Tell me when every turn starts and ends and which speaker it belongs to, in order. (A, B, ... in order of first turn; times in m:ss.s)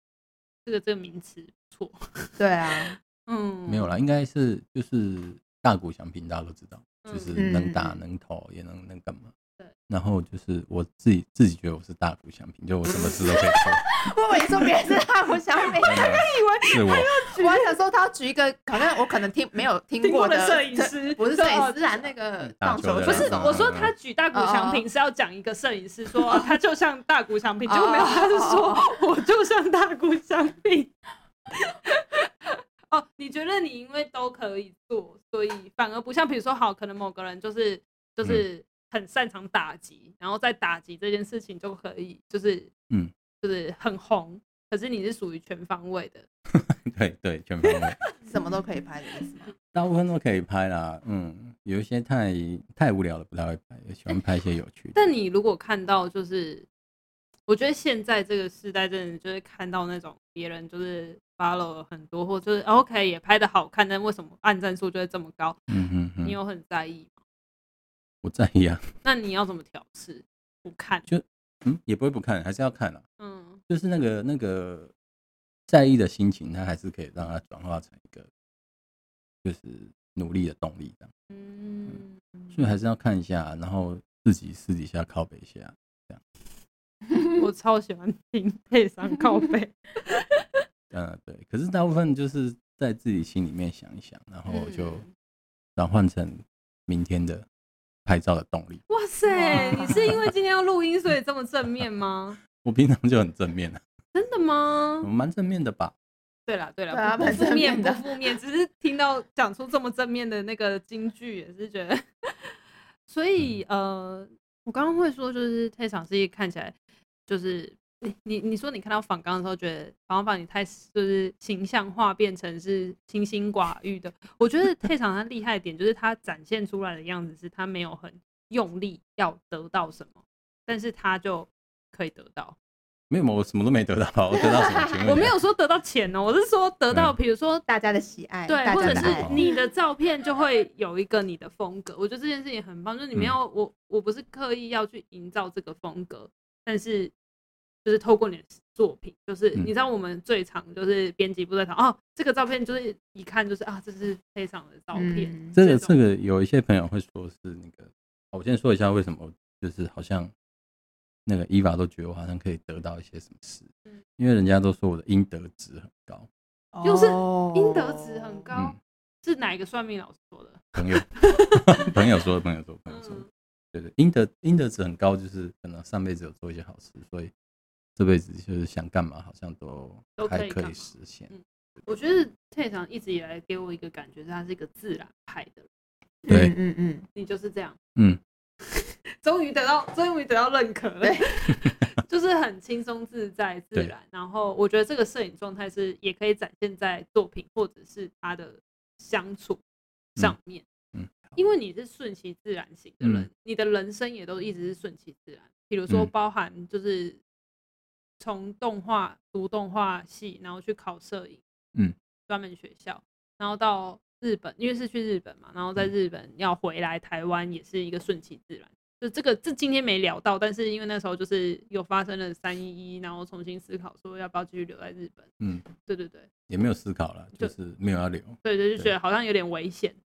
0:00.7-0:03.9 A
0:02.4-0:03.0 B
0:03.7-0:09.3 C
0:07.0-0:07.4 A
0:07.4-0:08.0 B
0:09.9-0:13.8 C
0:13.0-0:13.8 A
0:13.0-0:16.2 B
0:14.4-0:14.7 A
0:15.6-0:17.7 A
0:15.8-0:17.1 C
0:17.4-0:23.7 B
0:20.0-0:22.1 A
0:22.6-0:23.9 C
0:23.0-0:30.9 A
0:24.3-0:24.9 B
0:26.2-0:26.6 B
0:27.7-0:29.0 B
0:31.5-0:42.7 A
0:43.4-0:46.3 A
0:46.5-0:48.0 C
0:47.7-0:48.1 A
0:48.2-0:49.5 B
0:49.7-0:55.0 C
0:54.9-0:56.7 A
0:57.5-1:05.6 A
1:05.7-1:06.4 C
1:06.2-1:07.2 A
1:08.2-1:08.9 C
1:09.0-1:11.1 A
1:11.1-1:13.0 C
1:13.2-1:13.6 A
1:13.7-1:14.9 C
1:15.7-1:18.3 C
1:19.4-1:21.1 C
1:21.3-1:22.6 A
1:22.5-1:26.2 C
1:27.4-1:30.3 A
1:30.9-1:35.1 C
1:34.6-1:35.0 A
1:35.8-1:37.5 C
1:38.0-1:38.8 C
1:38.9-1:42.4 A
1:39.3-1:40.2 B
1:39.6-1:40.2 C
1:42.6-1:43.8 C
1:44.1-1:45.1 A
1:45.0-1:45.9 C
1:46.5-1:52.6 A
1:46.9-1:48.3 B
1:47.2-1:47.5 C
1:53.1-1:56.8 A
1:57.3-2:12.6 A
2:13.1-2:15.3 C
2:15.0-2:17.6 A
2:17.7-2:19.6 B
2:18.5-2:27.1 A
2:18.8-2:19.4 C
2:27.8-2:36.0 A
2:35.0-2:35.6 B
2:35.5-2:40.3 C
2:41.3-2:46.3 C
2:46.7-2:48.4 B
2:46.8-2:51.9 A
2:50.8-2:57.3 C
2:52.9-2:53.3 A
2:58.0-3:01.3 C
3:00.2-3:05.7 A
3:06.2-3:07.1 B
3:07.2-3:07.8 A
3:08.6-3:19.6 A
3:11.0-3:11.3 B
3:11.6-3:11.8 C
3:20.2-3:20.7 A
3:20.9-3:21.4 C
3:21.4-3:27.2 A
3:23.0-3:23.3 C
3:28.2-3:31.4 A
3:32.3-3:46.3 A
3:45.4-3:45.6 C
3:46.5-3:48.9 C
3:48.4-3:50.0 A